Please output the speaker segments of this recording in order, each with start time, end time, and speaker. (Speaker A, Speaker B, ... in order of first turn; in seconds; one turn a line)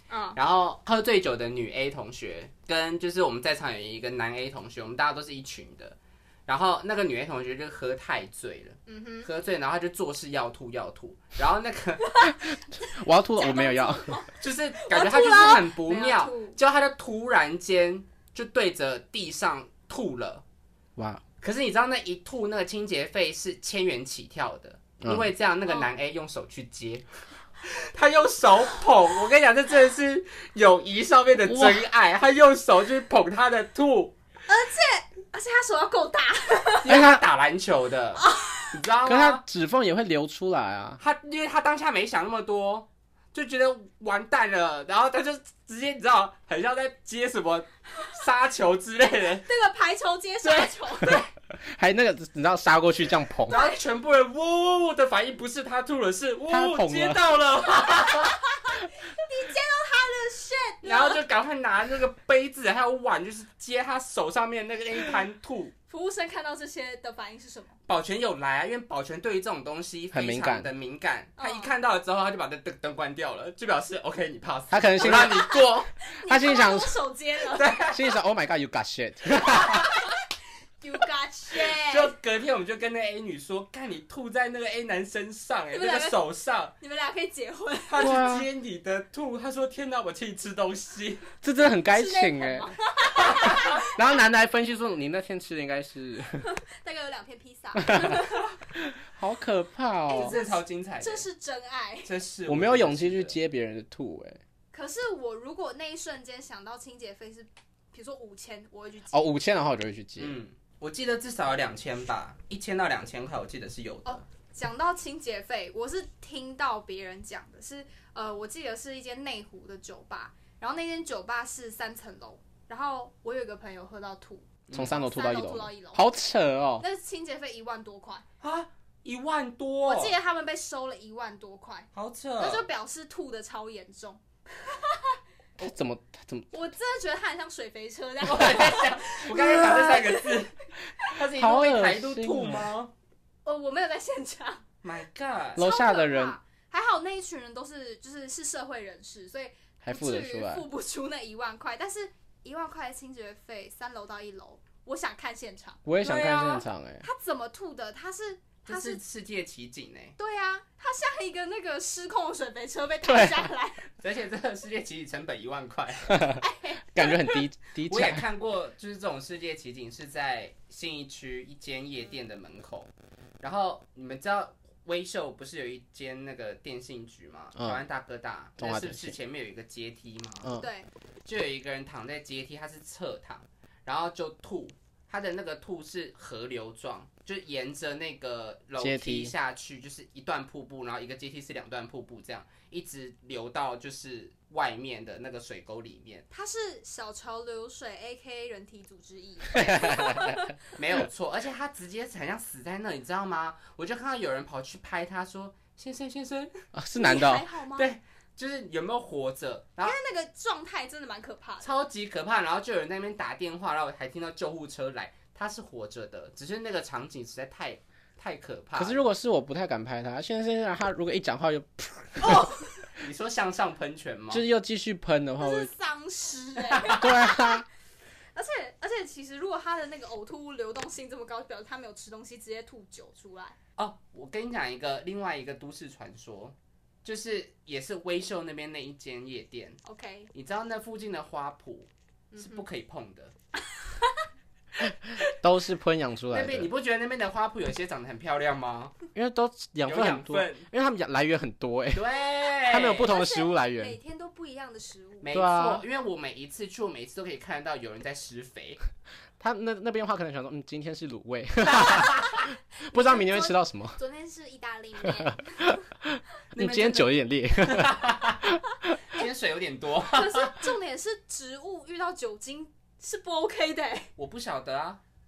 Speaker A: 0.1-0.4
Speaker B: 0.3-6.0
Speaker B: 6.5-12.1
Speaker A: 8.9-9.3
Speaker A: 12.0-16.6
Speaker C: 12.3-14.2
Speaker B: 14.4-20.4
Speaker C: 20.9-21.2
Speaker B: 21.4-27.0
Speaker B: 27.6-34.1
Speaker C: 31.4-31.8
Speaker A: 34.5-37.0
Speaker B: 36.8-39.4
Speaker C: 36.9-37.2
Speaker A: 38.2-38.7
Speaker C: 39.0-41.0
Speaker B: 41.0-49.5
Speaker A: 49.4-51.2
Speaker B: 50.4-51.2
Speaker C: 51.6-53.5
Speaker A: 53.5-53.8
Speaker B: 53.5-58.4
Speaker C: 56.5-57.2
Speaker A: 57.8-61.2
Speaker B: 60.8-65.7
Speaker A: 65.9-67.8
Speaker B: 67.9-75.9
Speaker C: 70.1-70.7
Speaker A: 71.4-71.7
Speaker C: 74.7-75.5
Speaker A: 75.1-77.9
Speaker C: 76.2-77.0
Speaker B: 77.5-78.1
Speaker C: 77.9-79.9
Speaker A: 79.4-80.2
Speaker A: 80.8-82.1
Speaker B: 81.6-86.7
Speaker A: 85.7-86.2
Speaker A: 86.8-88.2
Speaker B: 87.9-91.3
Speaker C: 88.0-88.5
Speaker C: 91.4-92.7
Speaker A: 91.9-93.9
Speaker C: 93.3-96.4
Speaker A: 96.4-98.6
Speaker C: 97.8-98.3
Speaker C: 99.0-100.3
Speaker A: 100.1-102.1
Speaker B: 100.1-101.2
Speaker B: 102.0-103.3
Speaker C: 102.5-104.4
Speaker A: 104.7-109.2
Speaker C: 109.1-110.4
Speaker B: 110.2-114.2
Speaker A: 114.0-126.0
Speaker B: 124.7-125.0
Speaker C: 124.7-126.8
Speaker A: 126.8-128.2
Speaker B: 128.4-130.1
Speaker A: 129.8-135.2
Speaker B: 131.9-132.6
Speaker C: 135.6-136.5
Speaker A: 136.5-141.2
Speaker B: 138.2-142.9
Speaker C: 141.3-142.7
Speaker A: 143.4-144.6
Speaker B: 144.8-145.6
Speaker C: 145.6-146.4
Speaker A: 145.6-155.8
Speaker C: 149.8-150.6
Speaker C: 155.8-157.0
Speaker B: 156.0-156.6
Speaker A: 157.0-159.0
Speaker B: 158.7-160.2
Speaker A: 160.2-163.8
Speaker C: 163.0-163.5
Speaker B: 164.0-166.2
Speaker C: 166.1-166.4
Speaker A: 166.4-167.4
Speaker C: 166.9-168.2
Speaker B: 167.9-172.9
Speaker B: 173.4-180.5
Speaker C: 178.6-179.2
Speaker A: 180.6-180.9
Speaker B: 181.2-196.2
Speaker C: 188.8-189.3
Speaker A: 196.3-200.5
Speaker C: 199.6-200.4
Speaker B: 200.7-206.5
Speaker C: 206.7-207.4
Speaker A: 207.0-207.9
Speaker B: 207.7-210.0
Speaker A: 209.8-211.7
Speaker B: 211.6-219.0
Speaker C: 218.8-222.5
Speaker A: 222.2-222.8
Speaker B: 223.0-224.4
Speaker C: 224.3-225.7
Speaker A: 225.4-227.6
Speaker B: 226.6-227.1
Speaker C: 227.0-227.6
Speaker A: 228.3-233.6
Speaker B: 233.8-239.8
Speaker A: 239.8-240.3
Speaker B: 240.3-243.3
Speaker A: 242.3-242.6
Speaker A: 243.7-244.2
Speaker C: 244.8-246.7
Speaker B: 246.3-248.9
Speaker C: 249.1-252.1
Speaker B: 249.8-250.7
Speaker B: 251.9-253.1
Speaker C: 252.7-254.0
Speaker A: 252.8-255.3
Speaker B: 255.2-258.8
Speaker C: 255.3-255.8
Speaker C: 259.4-264.0
Speaker A: 261.8-265.7
Speaker C: 265.0-269.0
Speaker B: 266.5-268.5
Speaker B: 269.1-270.6
Speaker A: 270.1-274.1
Speaker B: 274.2-275.0